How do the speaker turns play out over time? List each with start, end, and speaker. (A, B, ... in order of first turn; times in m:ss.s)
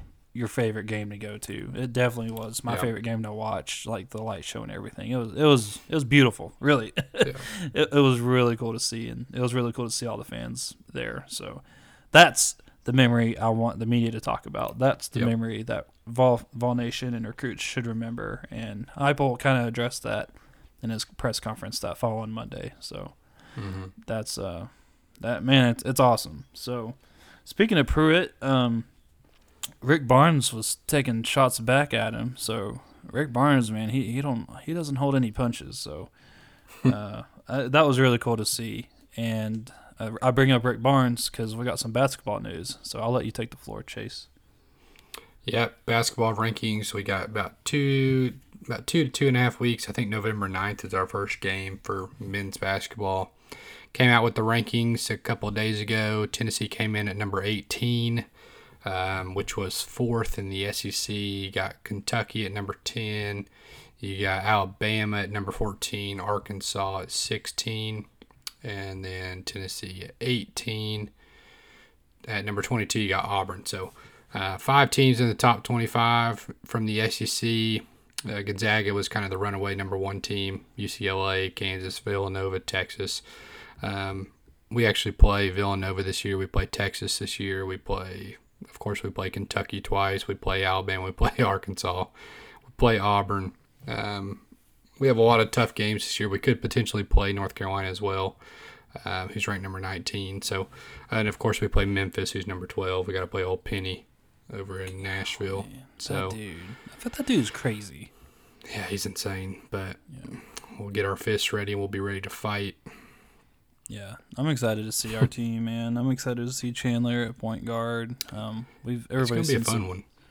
0:00.3-0:23.1 A
0:07.2-0:07.4 B
0:23.6-0:23.9 B
0:24.0-0:24.7 A
0:25.2-0:28.9 A
0:29.8-0:36.1 A
0:36.8-0:44.3 A
0:45.4-0:53.3 B
0:53.9-0:58.3 B
0:58.8-1:03.5 B
1:04.0-1:08.1 B
1:08.6-1:11.1 B
1:12.3-1:23.2 B
1:23.8-1:32.1 B
1:32.6-1:34.4 B
1:35.0-1:38.4 B
1:38.9-1:46.4 B
1:45.5-1:48.1 A
1:48.6-1:52.8 B
1:53.9-1:59.9 A
1:59.2-2:00.0 B